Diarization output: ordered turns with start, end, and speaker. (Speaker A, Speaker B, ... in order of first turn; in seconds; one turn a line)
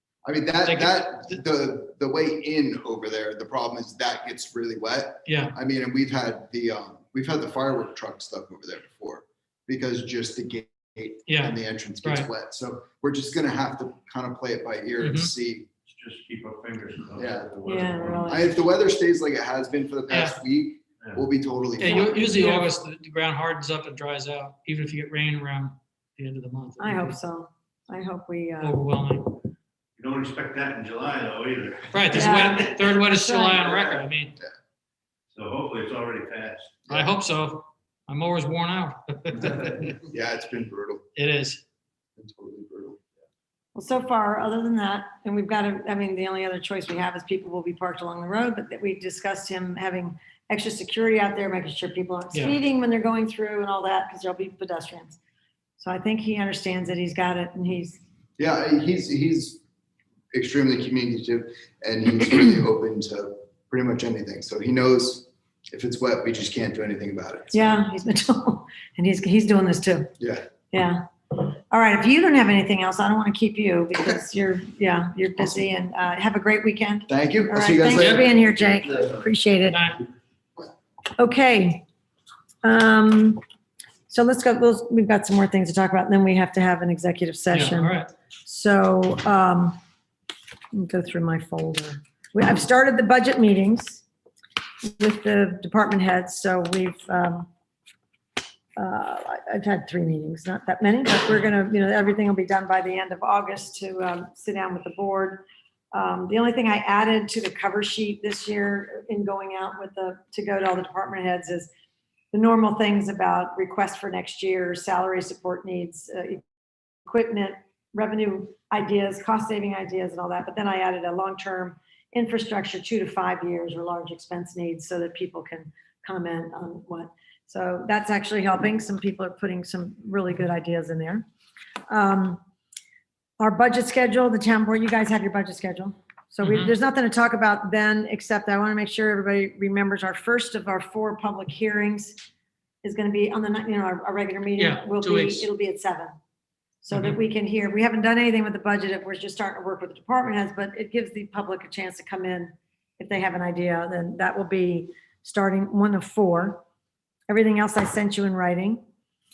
Speaker A: 0.2-15.7
Speaker B: 0.6-1.3
Speaker B: 5.2-5.5
Speaker B: 11.3-12.3
Speaker B: 15.0-15.3
Speaker C: 15.8-18.4
Speaker A: 17.2-17.5
Speaker D: 17.6-18.6
Speaker A: 18.2-22.1
Speaker B: 20.1-20.4
Speaker B: 21.8-27.1
Speaker D: 21.8-22.7
Speaker D: 26.8-28.8
Speaker B: 28.6-29.4
Speaker C: 30.0-32.8
Speaker B: 31.9-34.4
Speaker D: 32.1-33.7
Speaker C: 35.3-36.8
Speaker B: 36.9-40.0
Speaker A: 40.0-41.0
Speaker B: 41.1-41.6
Speaker A: 42.2-43.0
Speaker D: 43.7-55.2
Speaker D: 55.8-58.0
Speaker A: 58.4-59.6
Speaker A: 60.3-67.8
Speaker D: 67.5-70.1
Speaker A: 70.2-70.4
Speaker D: 70.7-79.8
Speaker A: 77.1-78.9
Speaker B: 77.9-78.3
Speaker B: 79.7-80.0
Speaker D: 81.2-81.8
Speaker D: 82.6-83.4
Speaker D: 84.1-89.8
Speaker B: 87.5-88.1
Speaker D: 90.7-94.0
Speaker D: 94.8-97.5
Speaker D: 98.8-111.7
Speaker D: 112.3-116.4
Speaker D: 117.0-131.2
Speaker D: 131.9-132.4
Speaker D: 133.4-142.2
Speaker B: 136.4-136.7
Speaker D: 142.8-146.1
Speaker B: 144.6-145.5
Speaker D: 146.8-156.6
Speaker B: 146.9-147.2
Speaker D: 157.3-158.8